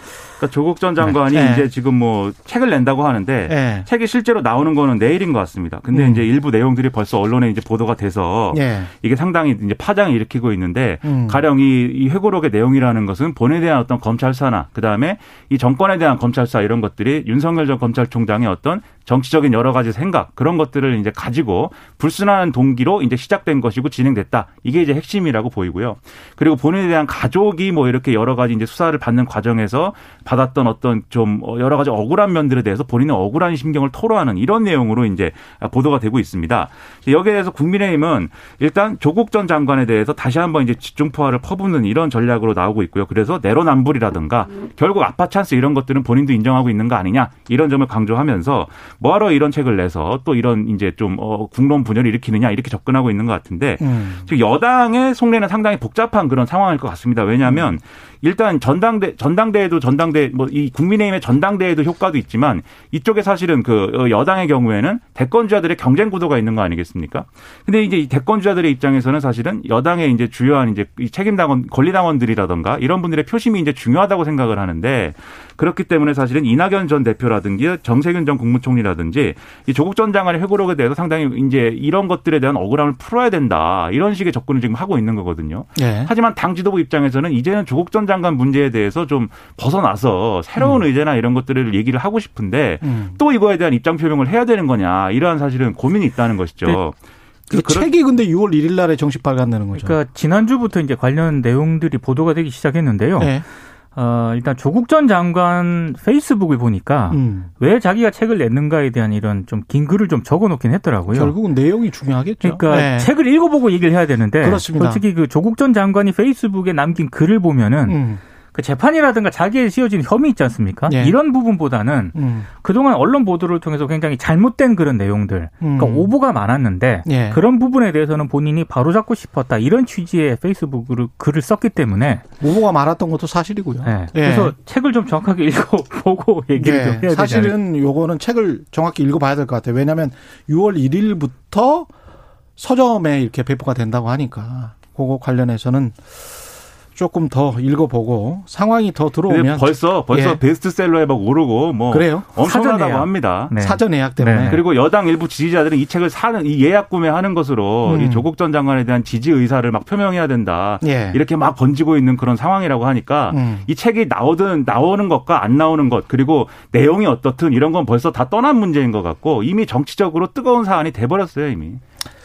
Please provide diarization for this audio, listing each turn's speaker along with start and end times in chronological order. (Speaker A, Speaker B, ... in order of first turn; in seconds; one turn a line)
Speaker A: 0.4-97.0
Speaker B: 1.1-1.7
Speaker B: 3.5-3.9
Speaker B: 5.9-6.2
Speaker B: 8.5-8.9
Speaker B: 11.0-11.4
Speaker B: 53.8-54.3
Speaker B: 57.4-57.7
Speaker B: 85.8-86.1
Speaker B: 92.8-93.2
Speaker A: 97.5-97.9
Speaker B: 97.5-100.0
Speaker C: 99.8-103.4
Speaker B: 103.2-103.5
Speaker C: 104.0-111.3
Speaker B: 107.1-107.5
Speaker B: 111.1-113.1
Speaker C: 112.4-118.0
Speaker B: 114.4-115.0
Speaker B: 117.9-118.2
Speaker C: 118.5-132.2
Speaker B: 120.9-121.2
Speaker B: 122.1-122.5
Speaker B: 125.6-126.1
Speaker B: 127.1-127.4
Speaker B: 132.4-134.5
Speaker C: 133.8-137.6
Speaker B: 136.6-141.9
Speaker B: 142.6-146.0
Speaker B: 147.0-150.4
Speaker A: 149.3-153.5
Speaker B: 151.9-152.3
Speaker C: 152.4-154.6
Speaker B: 153.6-154.6
Speaker A: 154.4-171.8
Speaker B: 157.9-158.3
Speaker B: 160.8-161.2
Speaker B: 163.3-163.7